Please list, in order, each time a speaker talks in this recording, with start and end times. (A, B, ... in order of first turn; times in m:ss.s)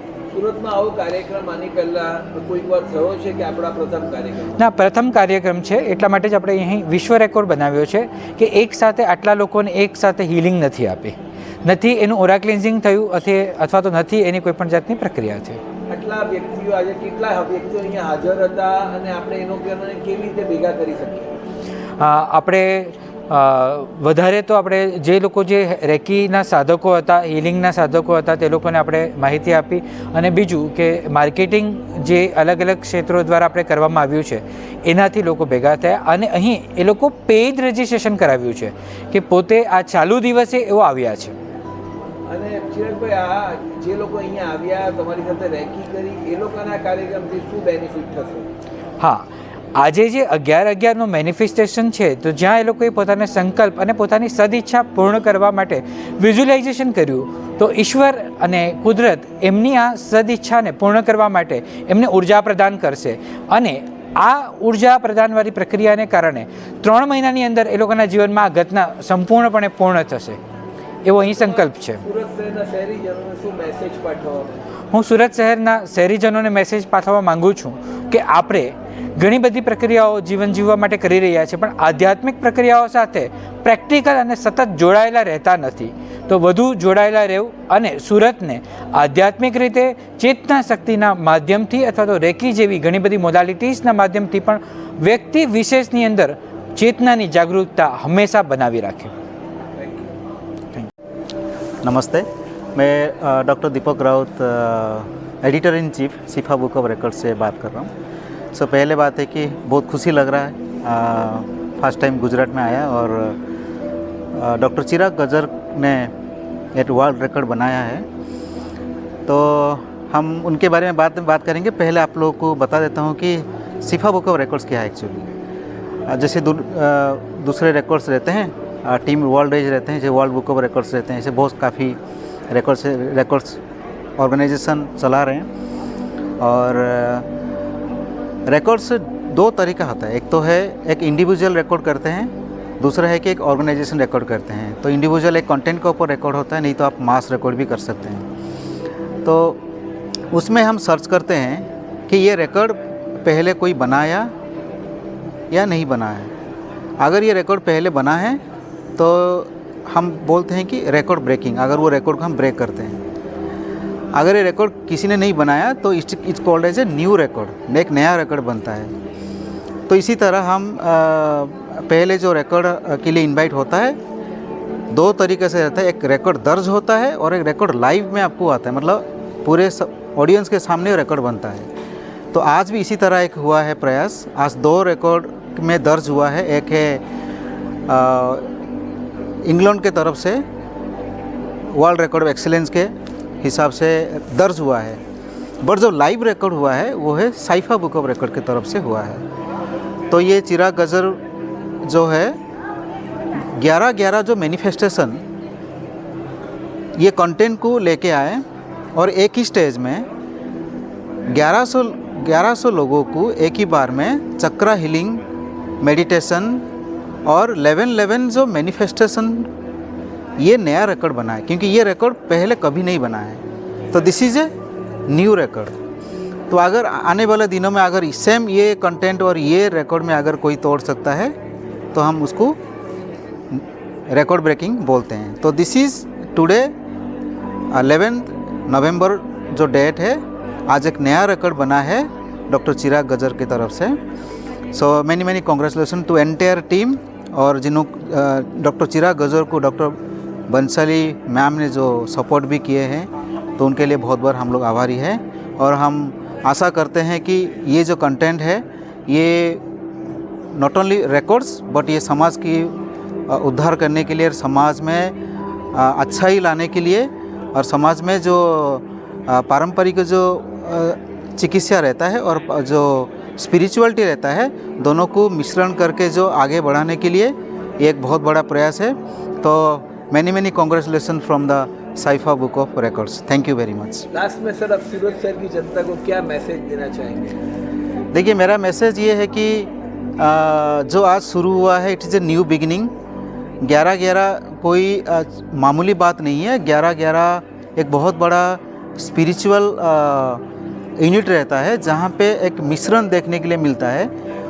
0:00.3-0:04.6 A
0:04.6-0:15.6 B
0:15.9-0:21.3 A
0:22.0-0:41.4 B
0:42.3-0:48.5 A
0:49.0-1:10.4 B
1:11.0-1:12.0 B
1:11.2-1:14.6 A
1:14.9-1:39.1 B
1:39.8-1:40.1 A
1:41.8-1:47.9 C
1:48.5-1:53.4 C
1:54.3-1:56.1 C
1:56.7-1:58.0 C
1:59.3-2:05.3 C
2:06.1-2:12.0 C
2:12.5-2:13.6 C
2:14.2-2:15.5 C
2:16.4-2:17.2 C
2:18.5-2:28.2 C
2:29.2-2:29.6 C
2:30.3-2:34.3 C
2:35.5-2:36.3 C
2:37.0-2:38.4 C
2:39.0-2:43.0 C
2:44.1-2:48.9 C
2:49.9-2:54.0 C
2:54.9-3:01.7 C
3:02.3-3:07.0 C
3:07.9-3:08.5 C
3:09.4-3:10.4 C
3:11.7-3:15.0 C
3:15.6-3:19.2 C
3:20.1-3:21.2 C
3:21.8-3:22.4 C
3:23.4-3:25.2 C
3:27.0-3:28.4 C
3:29.0-3:30.1 C
3:31.3-3:35.2 C
3:35.8-3:36.6 C
3:37.2-3:39.5 C
3:40.4-3:44.5 C
3:45.1-3:45.7 C
3:46.5-3:51.3 C
3:51.9-3:52.6 C
3:53.5-3:56.7 C
3:57.7-4:04.0 C
4:04.7-4:19.6 C
4:20.5-4:22.7 C
4:23.3-4:25.1 C
4:25.7-4:44.0 C
4:44.1-4:47.4 A
4:48.1-4:52.9 C
4:53.6-5:00.4 C
5:01.0-5:04.1 C